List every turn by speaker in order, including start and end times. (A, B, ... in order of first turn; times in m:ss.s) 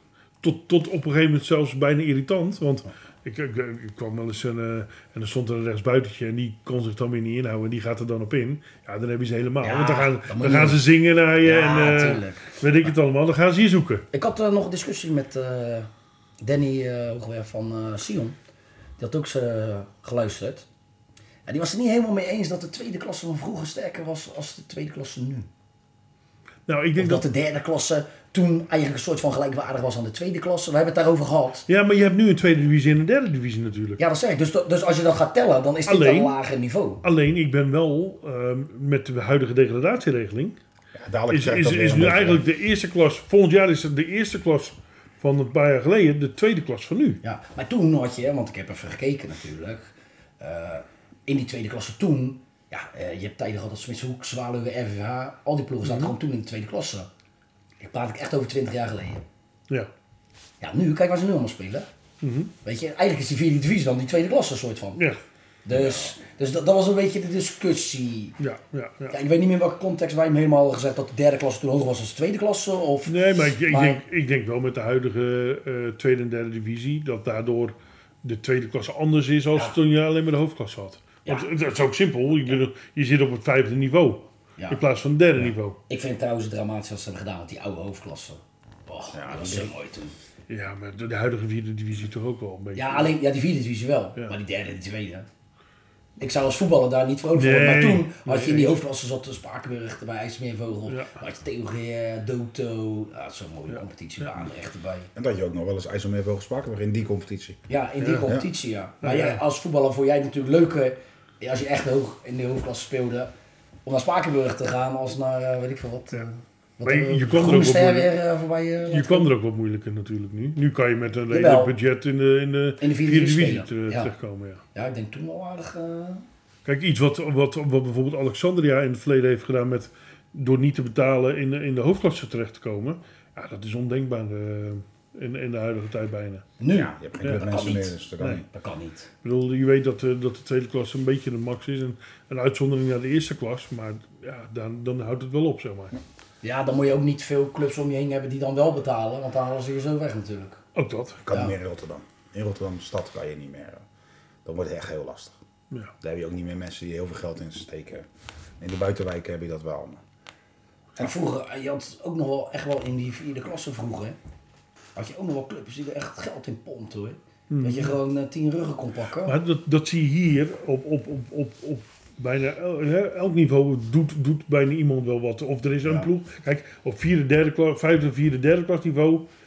0:00.4-0:14.0 A
0:09.6-0:10.8 B
0:11.4-0:12.6 B
0:14.1-0:15.9 B
0:16.4-0:18.4 B
0:19.0-0:20.7 B
0:21.5-0:25.5 B
0:26.7-0:27.2 A
0:27.0-0:31.7 B
0:31.7-0:34.0 A
0:34.0-0:37.0 B
0:35.9-0:36.4 A
0:37.0-0:40.6 A
0:41.0-0:42.4 C
0:41.3-0:47.2 A
0:47.2-0:57.1 B
0:55.8-0:56.1 A
0:57.8-0:59.2 B
1:00.6-1:01.9 B
1:02.2-1:02.5 A
1:02.6-1:05.0 B
1:05.7-1:08.4 B
1:08.4-1:09.2 A
1:09.1-1:14.0 B
1:13.1-1:25.8 A
1:25.4-1:30.2 B
1:29.1-1:29.7 C
1:30.5-1:33.2 A
1:32.8-1:35.3 B
1:36.2-1:45.1 B
1:37.4-1:38.8 A
1:45.2-1:47.6 C
1:47.7-1:53.3 B
1:48.0-1:48.3 A
1:49.0-1:49.4 A
1:53.9-1:59.3 B
1:56.8-1:58.1 A
1:58.9-2:04.6 A
2:01.3-2:01.7 B
2:02.8-2:04.1 B
2:04.7-2:06.2 B
2:06.6-2:16.5 A
2:16.6-2:19.1 B
2:16.7-2:18.5 C
2:19.2-2:26.0 A
2:26.4-2:30.6 B
2:30.8-2:31.3 A
2:31.3-2:33.8 C
2:34.4-2:35.4 C
2:36.0-2:38.1 C
2:38.6-2:40.0 C
2:41.0-2:44.2 B
2:45.0-2:49.4 B
2:47.5-2:48.0 A
2:49.2-2:59.3 A